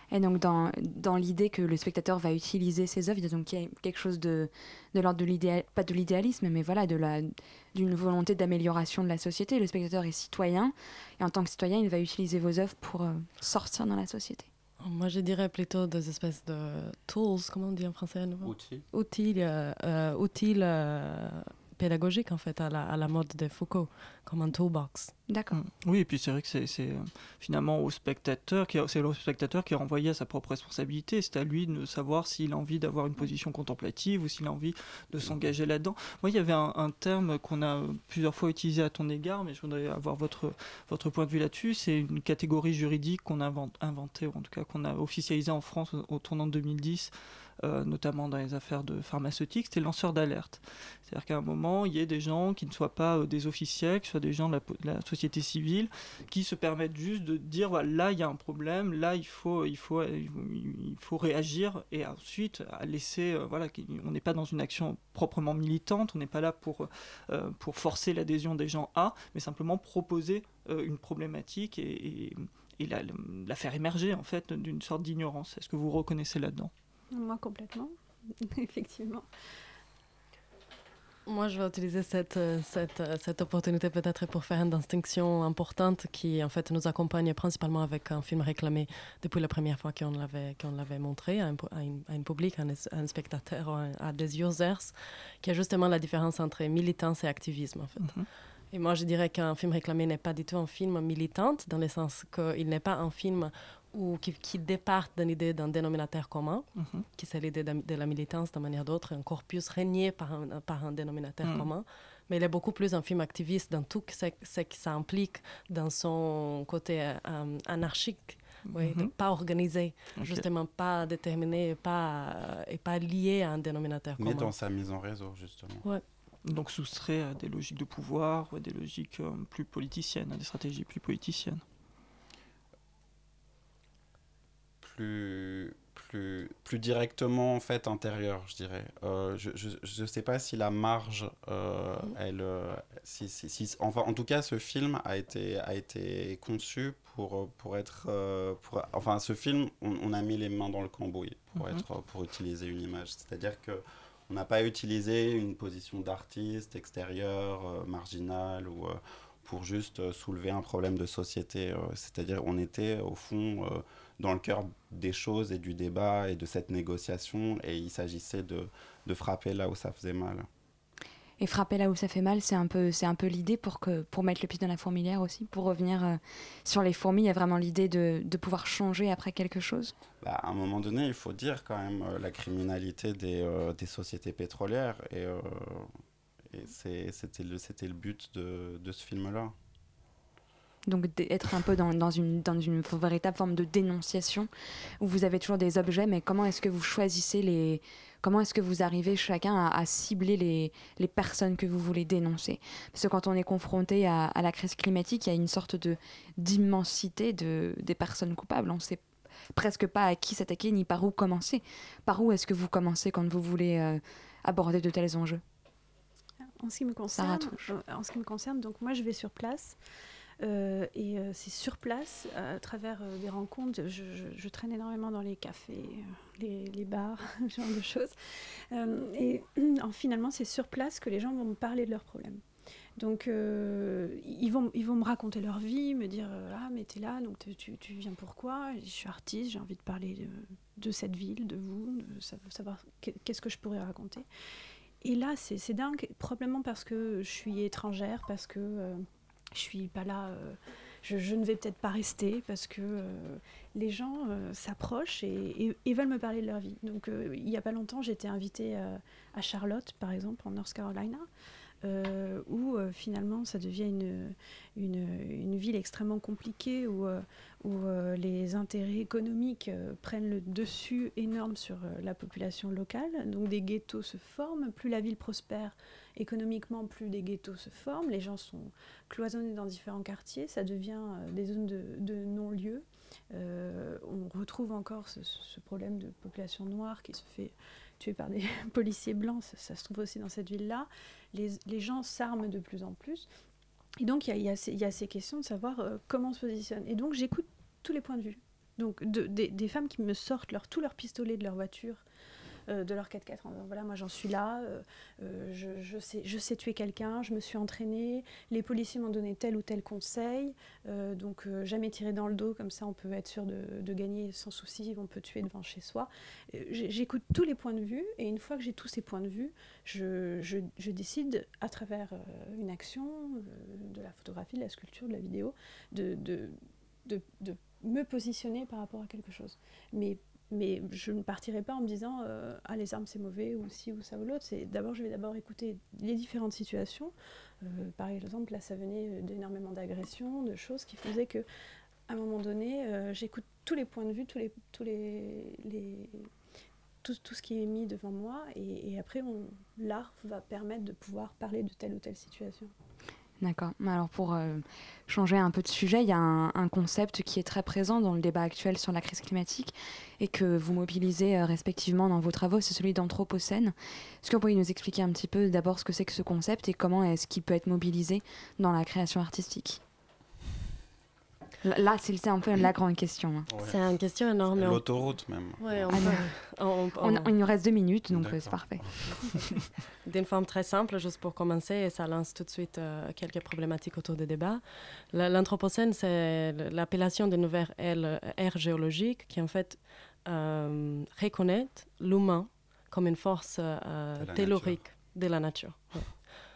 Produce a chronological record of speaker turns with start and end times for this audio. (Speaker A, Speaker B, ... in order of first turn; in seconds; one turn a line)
Speaker A: 0.1-14.5
Speaker B: 14.8-25.1
Speaker C: 18.4-18.9
Speaker A: 25.3-25.6
Speaker D: 25.5-47.1
Speaker D: 47.6-76.7
Speaker E: 77.1-79.3
Speaker B: 81.3-98.2
Speaker D: 98.0-98.3
Speaker B: 98.7-124.5
Speaker D: 106.8-107.1
Speaker D: 111.4-111.7
Speaker D: 118.7-119.1
Speaker D: 120.2-120.5
Speaker C: 124.2-125.9
Speaker D: 126.5-131.6
Speaker C: 134.8-170.5
Speaker D: 151.6-151.8
Speaker A: 171.4-179.9
Speaker C: 180.2-185.9
Speaker C: 186.5-189.6
Speaker A: 190.9-194.5
Speaker A: 195.0-209.0
Speaker A: 209.5-215.4
Speaker E: 216.6-219.8
Speaker A: 217.1-217.7
Speaker E: 220.4-228.1
Speaker E: 228.7-232.4
Speaker E: 233.0-244.3
Speaker E: 245.0-261.3
Speaker E: 261.8-293.3
Speaker E: 294.0-302.0
Speaker E: 302.7-341.4
Speaker E: 342.1-346.3
Speaker E: 347.0-352.7
Speaker A: 353.4-369.8
Speaker A: 371.6-373.5
Speaker C: 373.5-373.8
Speaker B: 373.6-374.9
Speaker C: 374.5-376.2
Speaker B: 375.6-377.3
Speaker A: 375.9-376.3
Speaker A: 377.0-378.9
Speaker C: 378.1-379.2
Speaker B: 380.1-396.1
Speaker C: 394.2-394.8